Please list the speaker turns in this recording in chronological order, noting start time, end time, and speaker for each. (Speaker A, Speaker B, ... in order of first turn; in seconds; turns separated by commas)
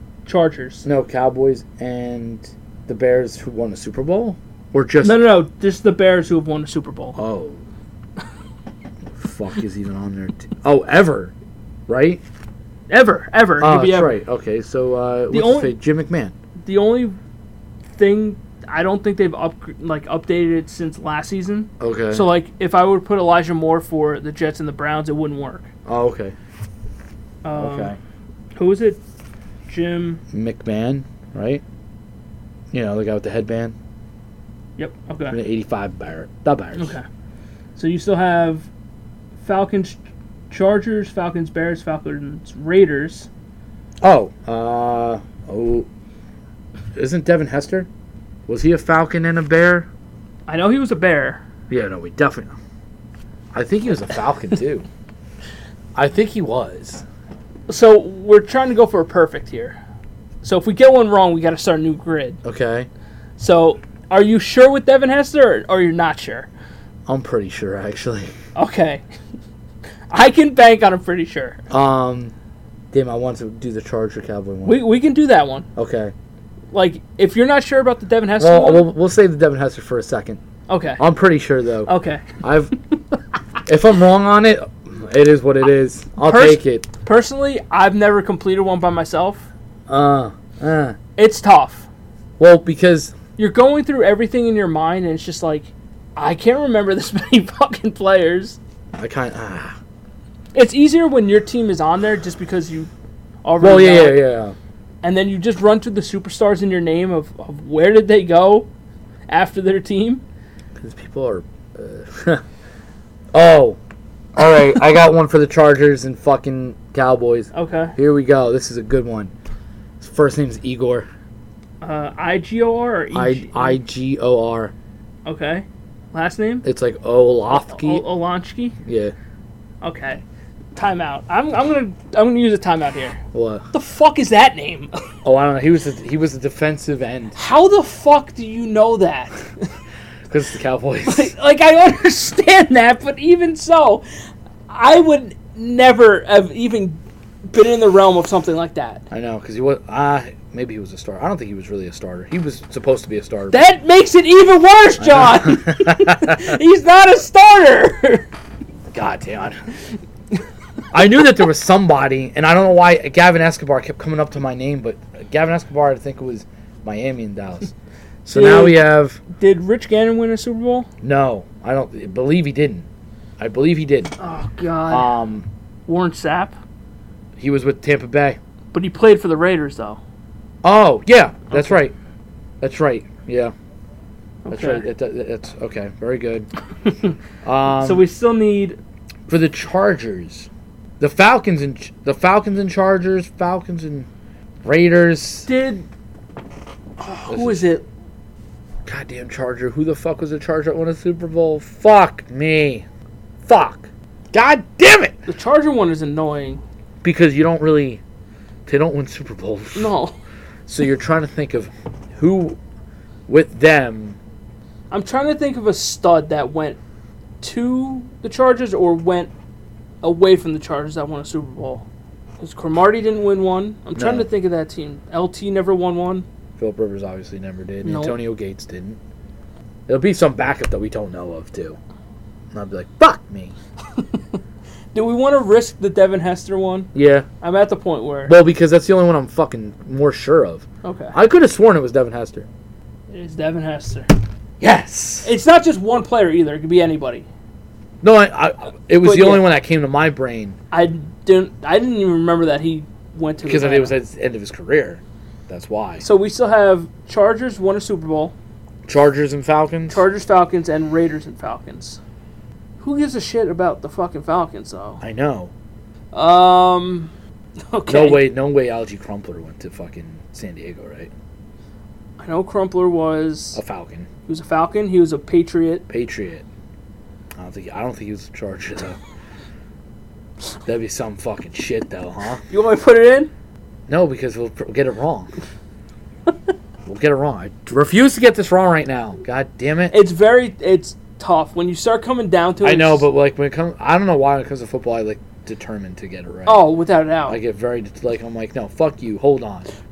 Speaker A: 0.3-0.8, Speaker B: 0.8-5.2, Speaker A: 5.0-7.2, Speaker B: 7.2-7.6, Speaker B: 9.2-11.3, Speaker B: 11.9-12.2, Speaker A: 12.9-14.2, Speaker B: 13.6-16.4, Speaker A: 15.3-15.7, Speaker A: 16.6-17.2, Speaker A: 17.9-25.7, Speaker B: 21.8-22.3, Speaker B: 25.9-26.4, Speaker A: 27.4-27.9, Speaker B: 27.5-28.0, Speaker A: 28.6-29.0, Speaker A: 29.7-30.2, Speaker B: 30.3-31.6, Speaker B: 32.7-33.7, Speaker A: 34.8-35.4, Speaker B: 35.3-37.0, Speaker A: 36.8-37.0, Speaker A: 37.8-38.7, Speaker A: 39.4-40.0, Speaker A: 40.5-43.3, Speaker B: 44.0-45.9, Speaker B: 47.0-47.9, Speaker B: 48.5-49.9, Speaker A: 50.5-51.4, Speaker B: 51.7-52.5, Speaker B: 53.5-54.9, Speaker B: 56.0-57.0, Speaker A: 57.7-59.8, Speaker A: 60.4-62.4, Speaker B: 62.4-62.9, Speaker A: 63.4-66.5, Speaker B: 67.1-68.3, Speaker A: 68.5-69.0, Speaker A: 70.1-71.6, Speaker B: 71.7-72.3, Speaker B: 72.9-74.8, Speaker A: 74.7-75.7, Speaker B: 75.8-76.1, Speaker A: 76.7-78.9, Speaker B: 78.4-80.4, Speaker A: 80.7-81.0, Speaker B: 81.0-82.8, Speaker A: 81.9-82.4, Speaker B: 83.7-86.9, Speaker A: 86.2-89.5, Speaker B: 89.9-91.0, Speaker A: 91.2-91.9, Speaker B: 92.4-93.2, Speaker A: 93.4-98.6, Speaker B: 98.9-99.8, Speaker A: 100.5-102.9, Speaker A: 103.4-104.2, Speaker B: 103.6-104.5, Speaker A: 105.0-108.7, Speaker A: 109.3-110.2, Speaker B: 110.8-112.4, Speaker B: 113.3-113.8, Speaker B: 114.4-119.3, Speaker A: 117.5-118.0, Speaker B: 120.0-121.1, Speaker A: 121.8-123.8, Speaker B: 123.1-124.7, Speaker A: 125.2-126.7, Speaker B: 126.6-128.0, Speaker A: 127.5-128.8, Speaker B: 128.8-129.1, Speaker A: 129.8-130.2, Speaker A: 130.8-133.2, Speaker B: 133.3-133.7, Speaker A: 133.7-134.9, Speaker B: 135.2-137.4, Speaker A: 137.4-139.7, Speaker B: 140.3-141.3, Speaker A: 141.1-144.0, Speaker A: 144.7-149.1, Speaker B: 149.1-153.6, Speaker A: 153.5-158.3, Speaker B: 155.0-156.6, Speaker B: 158.9-159.6, Speaker B: 160.9-167.7, Speaker B: 168.3-169.2, Speaker A: 168.3-170.9, Speaker B: 171.0-172.9, Speaker B: 173.4-174.2, Speaker A: 174.2-175.1, Speaker B: 174.9-175.5, Speaker A: 175.9-176.6, Speaker B: 177.4-178.4, Speaker A: 178.7-180.0, Speaker B: 180.6-181.9, Speaker A: 181.5-181.8, Speaker B: 182.6-183.5, Speaker A: 184.5-184.8, Speaker B: 184.5-186.5, Speaker A: 186.8-187.1, Speaker B: 187.4-188.1, Speaker A: 187.7-188.8, Speaker B: 189.3-190.5, Speaker B: 191.0-194.1, Speaker B: 194.6-195.5, Speaker A: 195.5-195.9, Speaker A: 197.0-197.9, Speaker B: 197.3-197.7, Speaker B: 198.9-202.8, Speaker B: 203.5-205.2, Speaker A: 205.3-206.6, Speaker B: 207.0-208.0, Speaker B: 208.7-209.9, Speaker A: 209.8-210.1, Speaker B: 210.7-212.6, Speaker B: 213.3-214.2, Speaker A: 214.9-216.8, Speaker A: 217.4-219.3, Speaker A: 220.0-221.9, Speaker A: 222.4-226.3, Speaker B: 224.0-224.3, Speaker B: 226.6-229.0, Speaker A: 227.8-228.2, Speaker B: 229.9-231.8, Speaker B: 232.5-233.6, Speaker A: 233.9-234.4, Speaker A: 234.9-236.9, Speaker B: 236.9-237.3, Speaker A: 237.4-238.4, Speaker B: 238.3-242.5, Speaker A: 240.8-241.2, Speaker A: 243.1-244.1, Speaker B: 244.6-245.3, Speaker A: 245.2-247.3, Speaker B: 248.0-250.6, Speaker A: 249.0-249.5, Speaker A: 250.7-253.9, Speaker B: 253.4-256.1, Speaker A: 256.0-258.3, Speaker B: 258.9-260.0, Speaker A: 259.9-262.0, Speaker A: 262.8-265.0, Speaker B: 265.0-265.5, Speaker A: 266.1-267.1, Speaker A: 267.7-268.3, Speaker B: 267.9-271.1, Speaker A: 272.2-273.6, Speaker B: 273.5-274.1, Speaker A: 274.3-275.9, Speaker B: 275.9-276.4, Speaker B: 277.4-279.0, Speaker B: 280.7-282.4, Speaker A: 282.5-283.3, Speaker B: 283.9-285.3, Speaker B: 286.9-290.0, Speaker A: 289.9-293.1, Speaker B: 292.6-296.7, Speaker A: 296.5-297.4, Speaker B: 297.3-299.7